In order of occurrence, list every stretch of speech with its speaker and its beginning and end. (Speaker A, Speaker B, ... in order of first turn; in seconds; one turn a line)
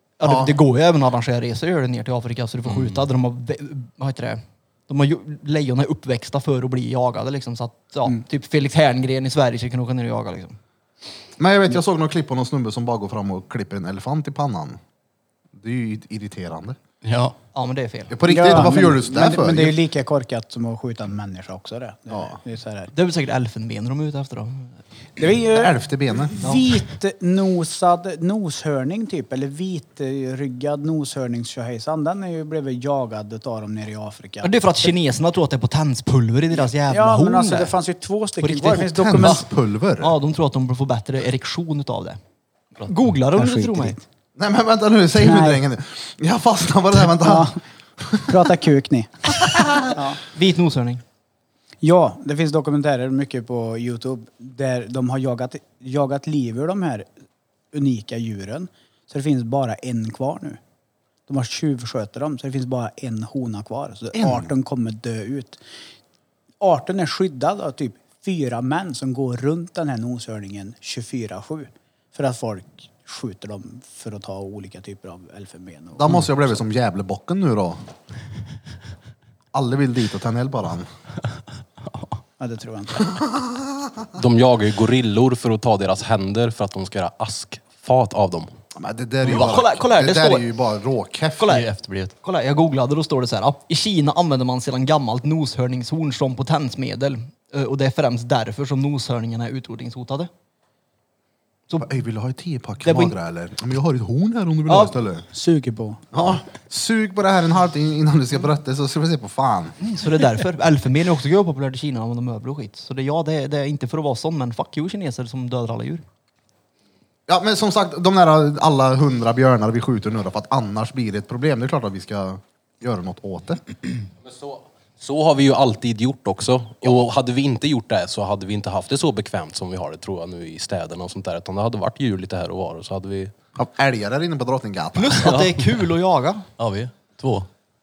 Speaker A: 0.2-10.6
Speaker B: 0.2-0.6
Speaker C: 2.7-3.0
Speaker B: 11.4-14.8
Speaker B: 15.5-16.8
Speaker C: 17.0-17.4
Speaker A: 17.5-18.6
Speaker B: 18.1-19.8
Speaker D: 18.2-22.9
Speaker B: 22.1-22.4
Speaker A: 22.9-24.7
Speaker D: 25.2-34.9
Speaker B: 25.5-26.4
Speaker A: 26.4-26.7
Speaker A: 34.4-37.8
Speaker D: 36.6-39.4
Speaker A: 38.4-39.4
Speaker B: 38.9-40.1
Speaker A: 40.0-42.2
Speaker A: 42.8-44.0
Speaker D: 43.3-44.0
Speaker B: 44.4-48.5
Speaker D: 45.1-45.6
Speaker D: 47.1-47.6
Speaker D: 48.3-50.2
Speaker B: 49.4-49.9
Speaker A: 50.3-51.0
Speaker D: 51.8-57.1
Speaker D: 57.7-60.6
Speaker D: 61.3-65.6
Speaker B: 64.1-64.5
Speaker D: 66.6-76.6
Speaker B: 76.0-77.8
Speaker B: 79.5-80.9
Speaker C: 81.8-82.2
Speaker D: 82.4-83.2
Speaker B: 83.0-84.1
Speaker E: 84.1-88.5
Speaker B: 88.8-91.6
Speaker A: 89.2-90.5
Speaker A: 91.4-91.7
Speaker C: 91.5-92.1
Speaker A: 92.2-100.3
Speaker B: 101.8-105.2
Speaker A: 102.8-103.1
Speaker A: 104.7-104.9
Speaker D: 105.3-106.0
Speaker B: 106.1-109.8
Speaker A: 109.8-116.0
Speaker B: 117.3-123.6
Speaker E: 124.2-133.3
Speaker B: 133.6-135.4
Speaker A: 134.9-136.5
Speaker C: 136.6-137.5